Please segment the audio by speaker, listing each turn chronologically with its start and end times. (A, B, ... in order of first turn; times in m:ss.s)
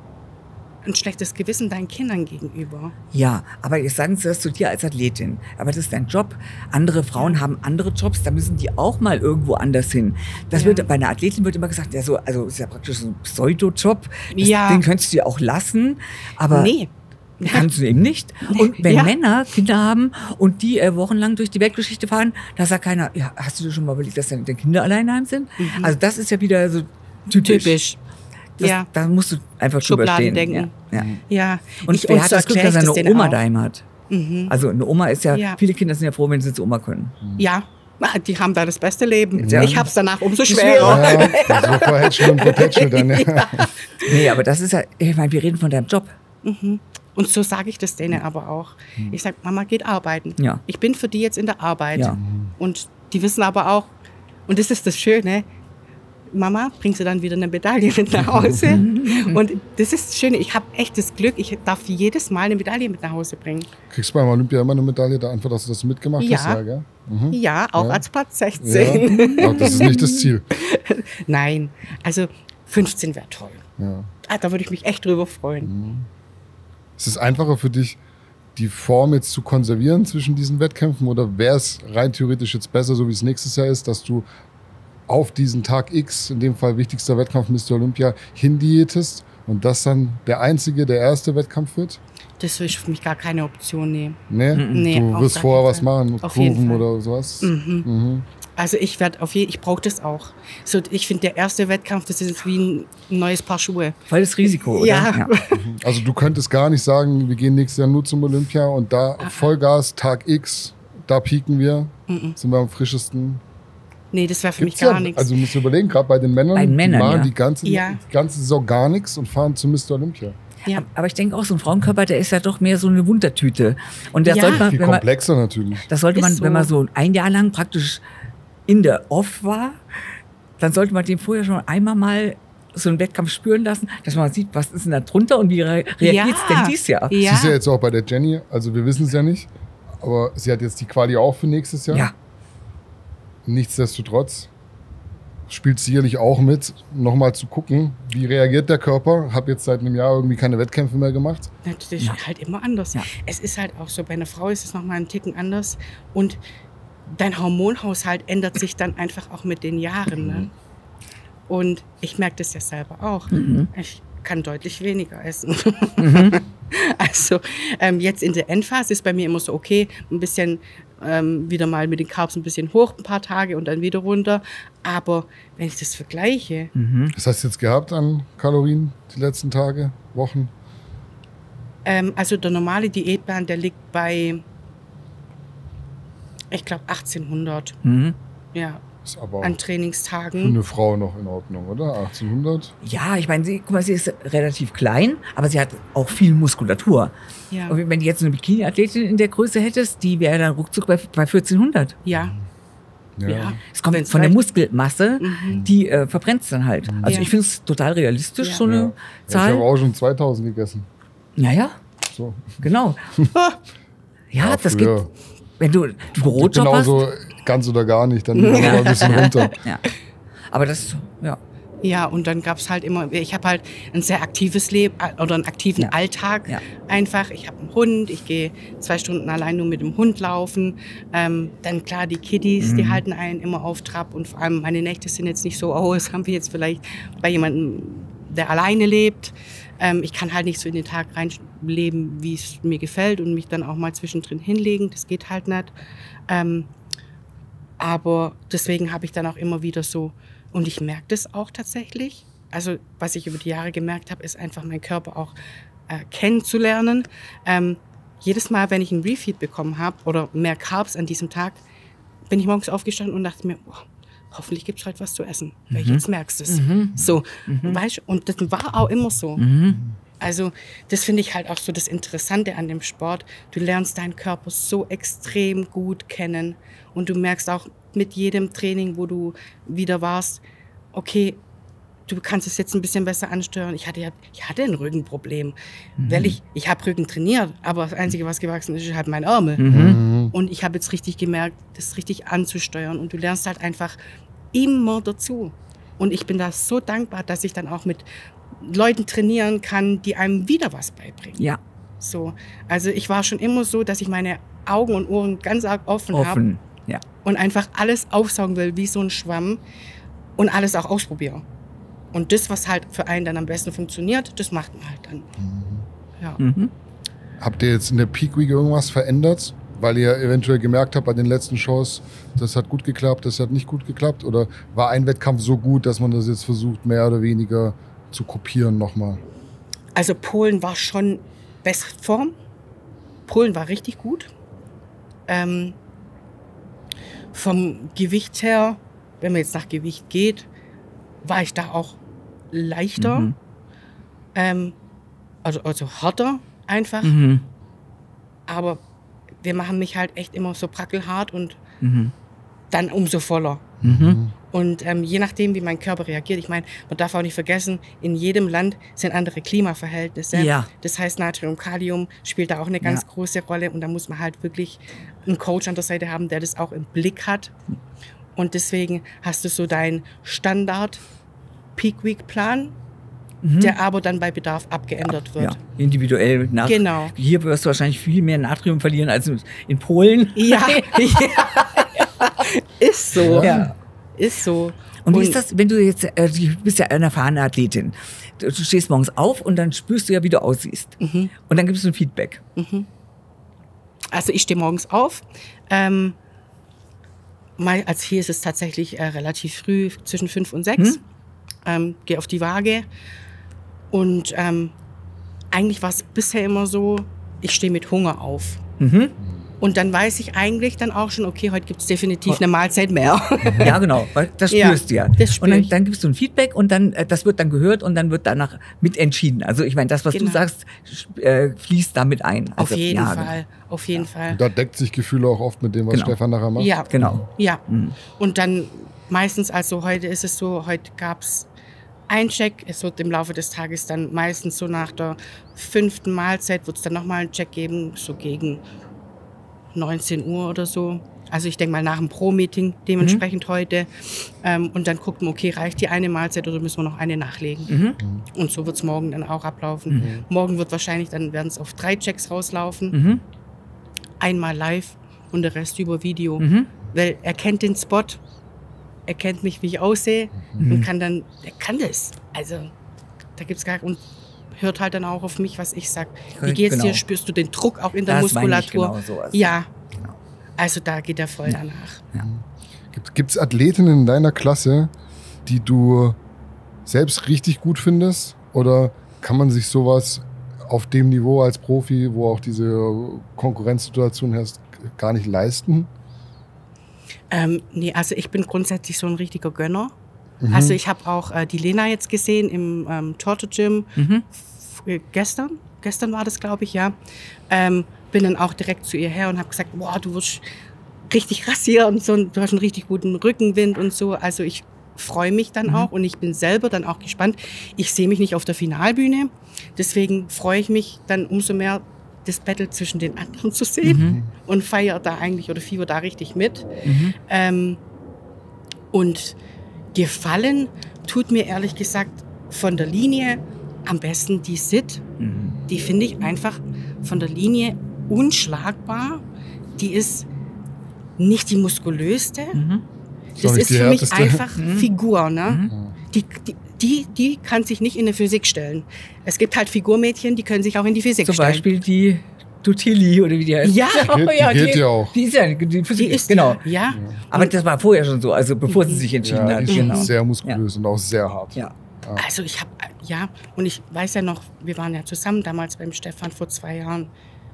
0:00.8-0:02.9 A
0:03.1-0:16.7 B
0:07.2-0:07.4 A
0:10.5-0:10.9 A
0:14.3-0:14.9 A
0:16.5-0:17.7 A
0:17.4-0:27.8 B
0:18.5-0:19.1 A
0:25.6-0:25.9 A
0:27.4-0:28.0 A
0:28.6-0:28.9 A
0:28.6-0:31.1 B
0:29.8-0:30.7 A
0:30.9-0:31.2 C
0:31.3-0:33.4 A
0:31.8-0:33.8 B
0:34.1-0:34.5 A
0:34.5-0:37.2 B
0:35.3-0:35.6 A
0:37.4-0:44.1 A
0:39.4-0:39.9 C
0:39.5-0:39.9 B
0:40.5-0:41.7 B
0:40.8-0:43.7 C
0:44.0-0:46.1 B
0:46.4-0:53.9 A
0:52.1-0:52.5 C
0:54.5-0:55.5 A
0:56.3-1:03.7 A
0:58.3-0:58.8 C
0:58.7-0:59.4 B
1:03.9-1:08.0 C
1:06.2-1:06.6 A
1:07.3-1:13.6 A
1:08.6-1:10.4 C
1:09.2-1:10.2 B
1:13.8-1:14.1 C
1:14.2-1:15.7 A
1:15.6-1:16.1 C
1:17.0-1:18.0 C
1:18.6-1:24.3 C
1:25.1-1:32.0 C
1:32.4-1:34.2 A
1:34.3-1:38.3 C
1:34.5-1:34.9 B
1:34.7-1:36.8 A
1:37.4-1:37.9 A
1:38.6-1:45.6 A
1:44.1-1:45.3 B
1:45.6-1:53.4 C
1:49.2-1:49.5 A
1:52.1-1:52.4 A
1:54.1-1:55.4 A
1:54.6-2:00.4 C
1:56.6-1:57.3 B
1:57.6-1:58.0 A
2:00.7-2:05.0 B
2:04.3-2:04.6 A
2:04.5-2:05.9 C
2:05.9-2:08.0 B
2:06.1-2:06.7 A
2:08.7-2:09.8 B
2:10.6-2:17.2 B
2:16.0-2:17.6 A
2:17.2-2:22.1 C
2:23.4-2:24.5 C
2:25.5-2:31.5 C
2:31.6-2:36.4 A
2:37.1-2:40.5 A
2:41.5-2:56.7 A
2:43.3-2:43.7 B
2:46.0-2:46.4 B
2:56.8-2:57.1 B
2:57.1-3:00.5 C
3:01.8-3:04.4 A
3:06.5-3:07.8 A
3:07.8-3:08.2 B
3:08.5-3:08.8 A
3:09.0-3:09.6 C
3:09.4-3:10.6 A
3:10.4-3:12.7 C
3:12.8-3:17.1 B
3:17.5-3:17.8 A
3:17.7-3:22.0 B
3:22.0-3:22.4 A
3:22.2-3:22.4 C
3:23.2-3:23.6 C
3:23.3-3:24.4 A
3:23.7-3:29.7 B
3:25.2-3:25.6 A
3:26.9-3:27.2 C
3:27.0-3:27.3 A
3:28.6-3:30.9 C
3:31.4-3:31.8 B
3:32.1-3:32.6 C
3:32.6-3:33.0 B
3:34.3-3:35.1 B
3:34.4-3:35.1 C
3:35.6-3:37.1 B
3:36.2-3:39.5 C
3:38.4-3:39.5 A
3:38.6-3:39.8 B
3:40.5-3:41.4 B
3:41.8-4:05.7 A
3:52.6-3:53.0 B
4:06.3-4:06.7 A
4:07.8-4:15.3 A
4:15.9-4:21.6 A
4:22.3-4:29.4 A
4:25.7-4:27.8 B
4:29.4-4:29.8 B
4:30.2-4:40.4 A
4:40.9-4:41.4 A
4:42.1-4:45.6 A
4:46.0-4:46.4 B
4:46.1-4:49.7 A
4:49.6-4:50.0 B
4:49.7-4:50.3 C
4:50.3-4:54.0 A
4:54.5-5:01.4 A
5:02.0-5:06.4 A
5:06.1-5:07.0 B
5:07.2-5:09.6 A
5:10.4-5:11.4 A
5:12.1-5:15.3 A
5:15.4-5:15.9 C
5:16.4-5:16.7 B
5:17.4-5:29.2 C
5:30.0-5:32.4 A
5:33.3-5:34.3 A
5:35.3-5:35.8 A
5:37.3-5:40.5 A
5:41.2-5:42.0 A
5:42.5-5:43.3 A
5:43.0-5:43.3 B
5:44.4-5:44.8 A
5:45.4-5:47.2 A
5:47.0-5:47.4 B
5:48.5-5:48.8 A
5:49.4-5:51.6 A
5:51.8-5:52.1 B
5:52.7-5:53.7 A
5:53.8-5:54.3 C
5:53.8-5:54.2 B
5:54.5-6:07.5 A
6:00.3-6:00.7 B
6:08.4-6:11.0 A
6:11.8-6:12.8 A
6:13.4-6:13.8 B
6:13.6-6:15.6 A
6:15.4-6:22.3 B
6:16.6-6:17.1 A
6:20.4-6:25.4 A
6:23.2-6:23.7 C
6:23.3-6:23.7 B
6:25.0-6:32.4 B
6:31.0-6:31.3 A
6:32.6-6:32.9 A
6:34.1-6:36.2 A
6:37.6-6:41.0 A
6:41.6-6:42.9 A
6:43.9-6:44.7 A
6:45.5-6:48.6 A
6:48.8-6:49.2 B
6:49.6-6:53.9 A
6:53.5-6:53.7 C
6:53.6-7:03.3 B
6:54.5-6:55.7 A
7:00.1-7:00.5 A
7:02.6-7:04.4 A
7:04.3-7:07.1 C
7:05.9-7:06.2 B
7:06.6-7:07.6 A
7:06.9-7:08.0 B
7:08.2-7:11.5 A
7:12.1-7:18.6 A
7:19.7-7:27.8 A
7:27.7-7:28.0 B
7:28.3-7:33.0 A
7:32.9-7:33.2 B
7:34.2-7:38.2 A
7:36.4-7:36.7 B
7:39.1-7:42.7 A
7:40.6-7:40.9 B
7:43.4-7:49.7 A
7:46.4-7:47.0 B
7:48.1-7:50.2 B
7:50.6-7:52.0 A
7:52.2-7:54.9 C
7:55.5-7:56.2 C
7:56.9-8:05.9 C
8:07.3-8:09.9 A
8:10.4-8:10.8 C
8:10.5-8:17.0 A
8:14.0-8:14.2 B
8:17.5-8:20.4 A
8:21.1-8:36.7 A
8:33.8-8:34.2 B
8:34.0-8:34.3 C
8:36.9-8:37.2 B
8:37.3-8:37.8 A
8:38.9-8:39.4 A
8:39.9-8:45.0 A
8:45.2-8:45.6 B
8:45.7-8:49.2 A
8:49.8-8:50.3 A
8:51.2-8:52.6 A
8:52.5-8:52.9 B
8:53.4-8:54.4 C
8:53.4-9:01.6 A
8:54.6-8:54.9 B
8:55.7-8:55.9 C
9:01.2-9:06.7 B
9:03.6-9:04.2 A
9:04.0-9:05.2 C
9:06.0-9:07.5 A
9:07.3-9:10.6 B
9:08.7-9:09.1 A
9:09.2-9:12.2 C
9:09.7-9:10.1 A
9:12.2-9:17.1 A